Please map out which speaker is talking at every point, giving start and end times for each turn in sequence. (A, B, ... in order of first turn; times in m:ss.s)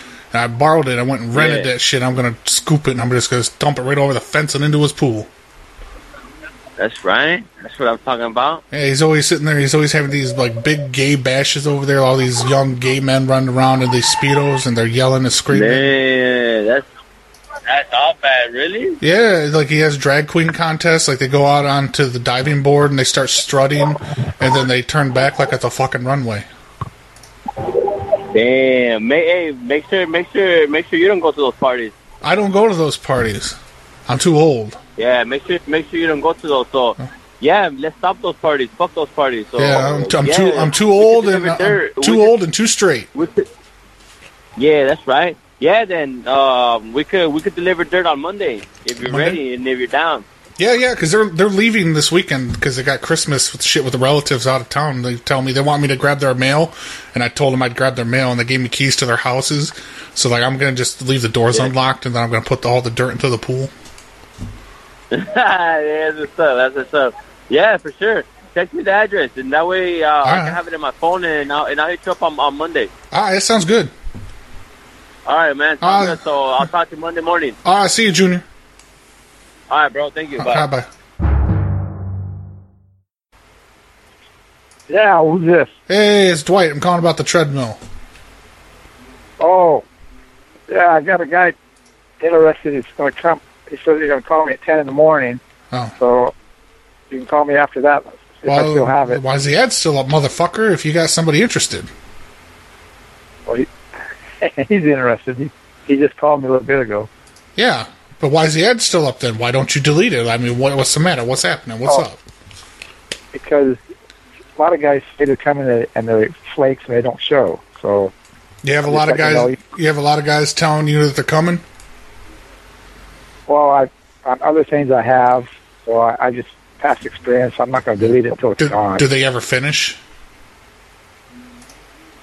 0:00.3-0:05.3 A
0:01.3-0:01.7 B
0:06.8-0:08.6 B
0:08.7-0:15.9 A
0:15.5-0:16.9 B
0:17.7-0:19.0 B
0:19.0-0:26.5 A
0:28.3-0:31.9 B
0:32.2-0:34.8 A
0:35.0-0:42.4 B
0:39.6-0:43.1 A
0:43.1-0:43.4 B
0:44.6-0:50.2 B
0:49.1-0:49.4 A
0:50.6-1:03.7 A
1:05.1-1:12.9 B
1:10.2-1:10.6 A
1:13.1-1:13.9 A
1:15.2-1:17.6 B
1:15.8-1:16.2 A
1:17.6-1:18.4 A
1:19.7-1:20.6 B
1:20.4-1:20.9 A
1:24.9-1:25.7 C
1:25.9-1:27.8 A
1:29.4-1:29.8 C
1:30.7-1:31.6 C
1:32.2-1:35.4 C
1:36.0-1:36.3 C
1:37.1-1:39.2 C
1:38.5-1:41.9 A
1:44.4-1:47.1 C
1:47.6-1:52.2 A
1:53.3-1:53.8 C
1:54.6-1:58.1 C
1:58.6-2:01.6 A
1:58.9-1:59.6 C
2:03.5-2:09.1 C
2:08.0-2:10.0 A